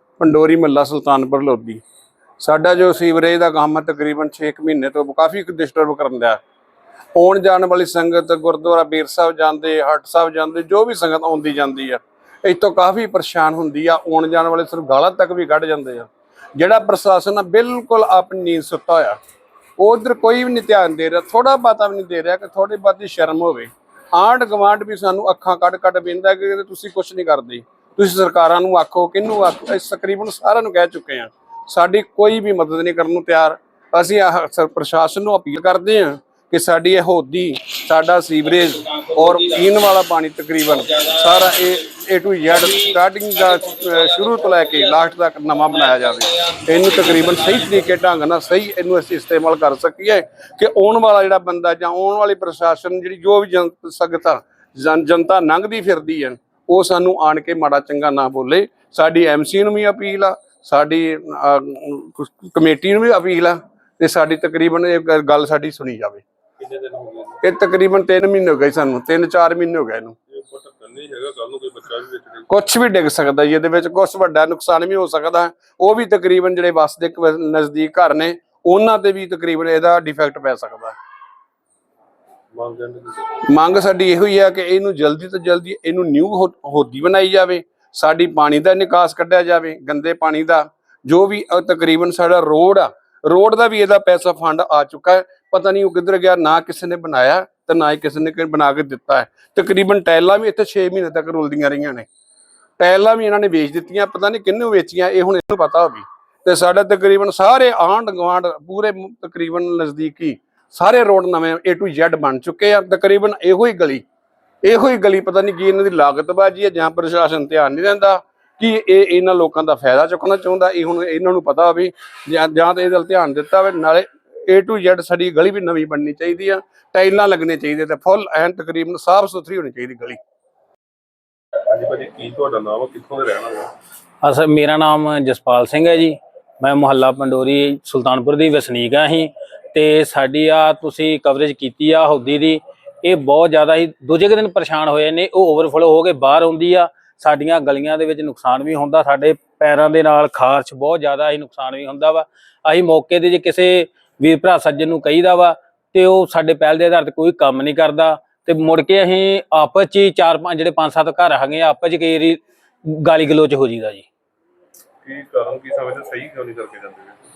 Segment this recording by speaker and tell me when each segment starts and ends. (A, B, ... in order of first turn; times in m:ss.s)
0:00.2-0:01.8 A
0:02.4-0:06.4 A
0:07.1-0:19.2 A
0:19.8-1:06.2 A
0:42.5-0:42.9 B
0:43.5-0:45.0 B
0:46.6-0:47.3 B
1:06.6-1:07.4 C
1:07.4-1:10.2 A
1:10.3-1:12.5 C
1:12.5-1:20.9 A
1:22.5-1:23.3 C
1:23.4-1:42.1 A
1:42.8-1:54.0 A
1:54.6-2:10.2 A
2:11.6-2:13.7 C
2:14.2-2:44.0 B
2:45.0-2:47.2 C